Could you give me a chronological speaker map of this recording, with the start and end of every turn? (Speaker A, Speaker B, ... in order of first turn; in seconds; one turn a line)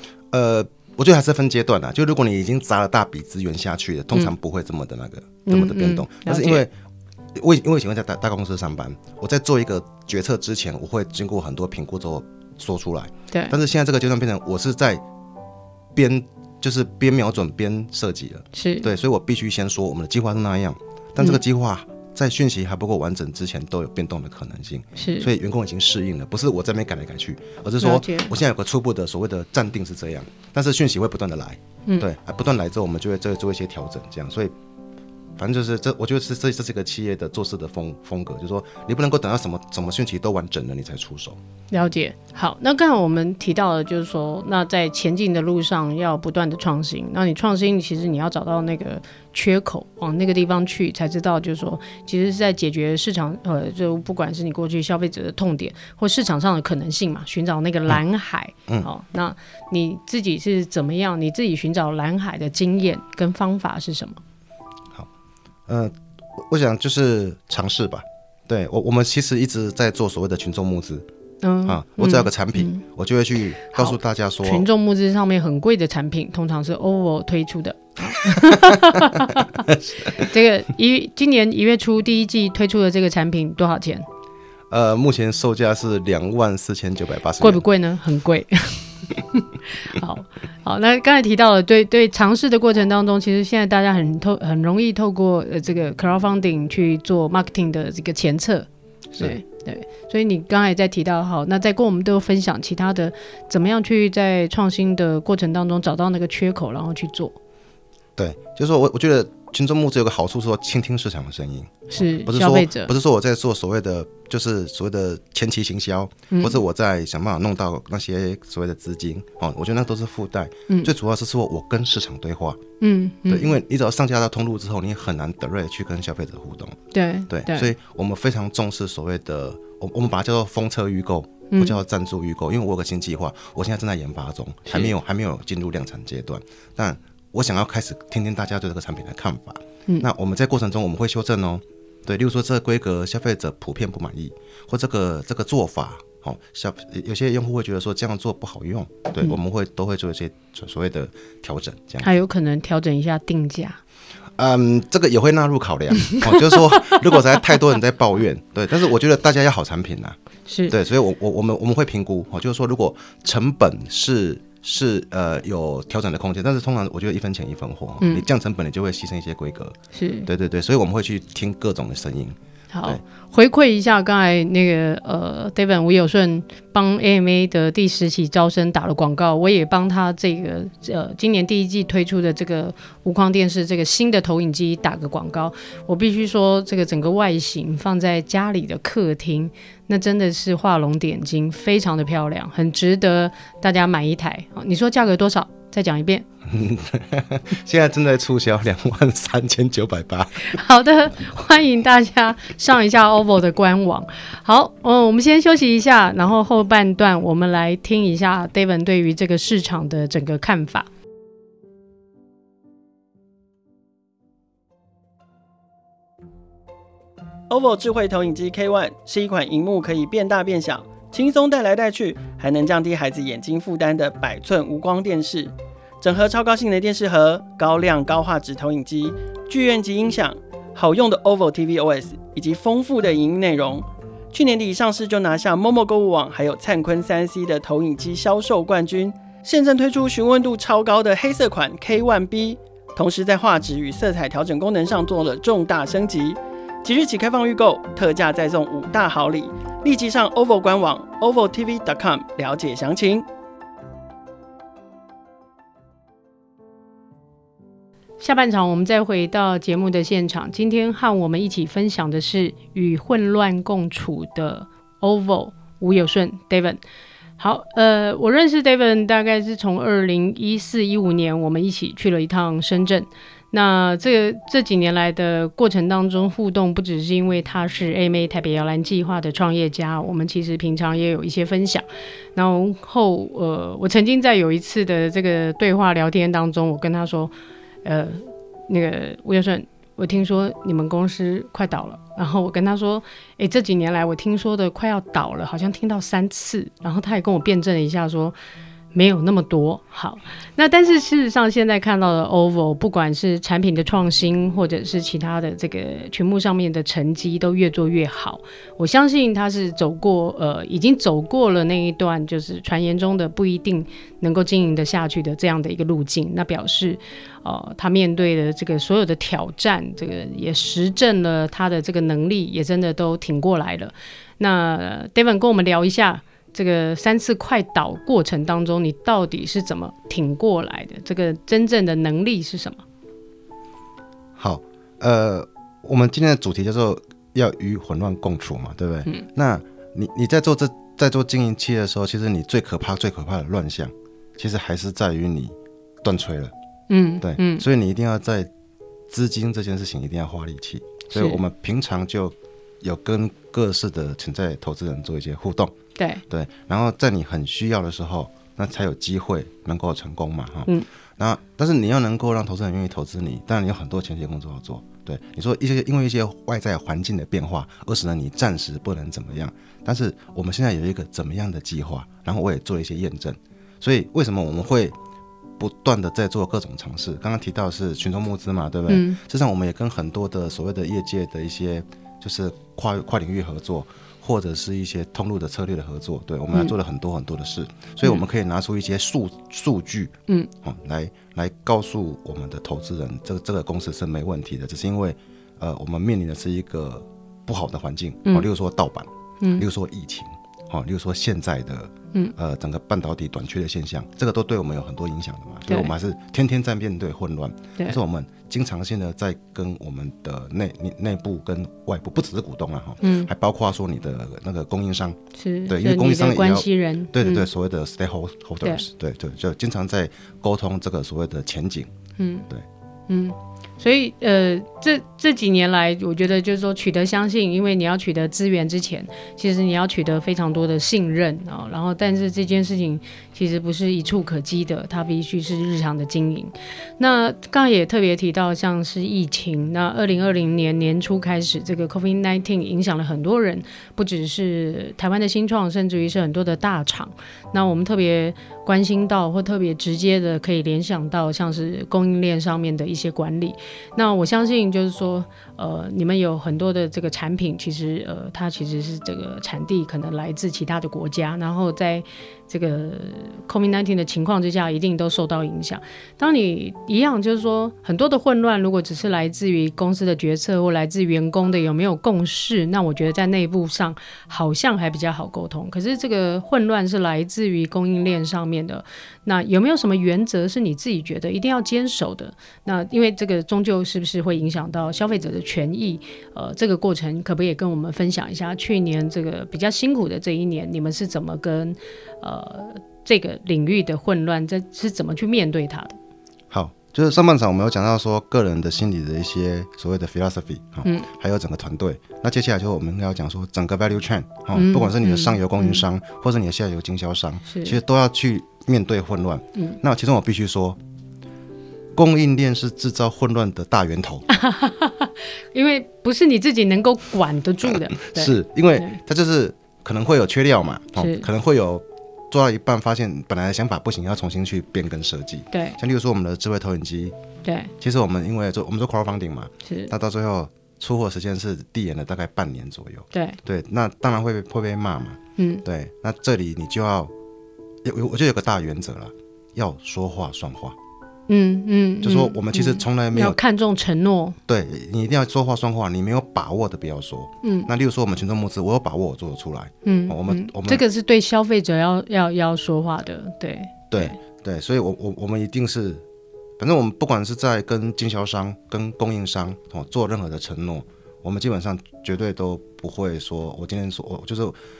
Speaker A: 0.3-6.7
Speaker B: 5.5-6.6
Speaker A: 7.3-15.0
Speaker A: 15.9-34.5
Speaker B: 18.5-18.9
Speaker B: 24.9-25.3
Speaker B: 27.8-28.3
Speaker A: 35.4-41.4
Speaker B: 41.7-64.2
Speaker A: 65.7-71.0
Speaker B: 71.4-72.8
Speaker A: 71.7-74.7
Speaker B: 73.7-84.0
Speaker A: 78.5-79.0
Speaker A: 79.7-80.2
Speaker A: 84.7-87.6
Speaker B: 87.4-107.4
Speaker A: 108.2-122.6
Speaker B: 111.9-112.9
Speaker B: 116.3-116.6
Speaker B: 122.8-123.5
Speaker A: 123.3-152.1
Speaker B: 126.9-127.7
Speaker B: 131.5-131.8
Speaker B: 152.0-153.8
Speaker A: 154.4-160.2
Speaker B: 160.5-160.7
Speaker A: 160.7-173.0
Speaker B: 168.0-168.2
Speaker B: 169.9-170.3
Speaker B: 172.7-196.2
Speaker A: 196.5-200.6
Speaker B: 200.5-210.9
Speaker C: 217.5-253.2
Speaker B: 258.2-266.8
Speaker B: 267.4-287.3
Speaker B: 287.8-298.3
Speaker B: 298.9-332.8
Speaker A: 334.4-346.5
Speaker B: 346.9-347.6
Speaker A: 347.2-348.5
Speaker A: 349.1-355.7
Speaker B: 351.1-351.4
Speaker B: 356.0-356.2
Speaker A: 356.3-374.9
Speaker A: 375.6-421.9
Speaker B: 378.9-379.2
Speaker B: 405.6-405.9
Speaker B: 413.0-413.3
Speaker B: 415.3-417.5
Speaker B: 422.2-422.5
Speaker B: 423.1-496.0
Speaker A: 496.5-510.8
Speaker B: 504.5-505.8
Speaker B: 507.5-507.8
Speaker A: 511.9-514.2
Speaker B: 514.3-519.0
Speaker A: 517.6-527.1
Speaker B: 521.0-521.3
Speaker B: 525.5-525.8
Speaker B: 527.4-527.7
Speaker A: 527.8-537.1
Speaker B: 529.6-529.9
Speaker B: 535.4-535.6
Speaker A: 537.8-540.8
Speaker B: 541.3-544.4
Speaker A: 542.0-543.4
Speaker A: 544.5-550.8
Speaker B: 547.4-547.7
Speaker B: 549.8-554.2
Speaker A: 553.9-556.0
Speaker A: 556.6-564.5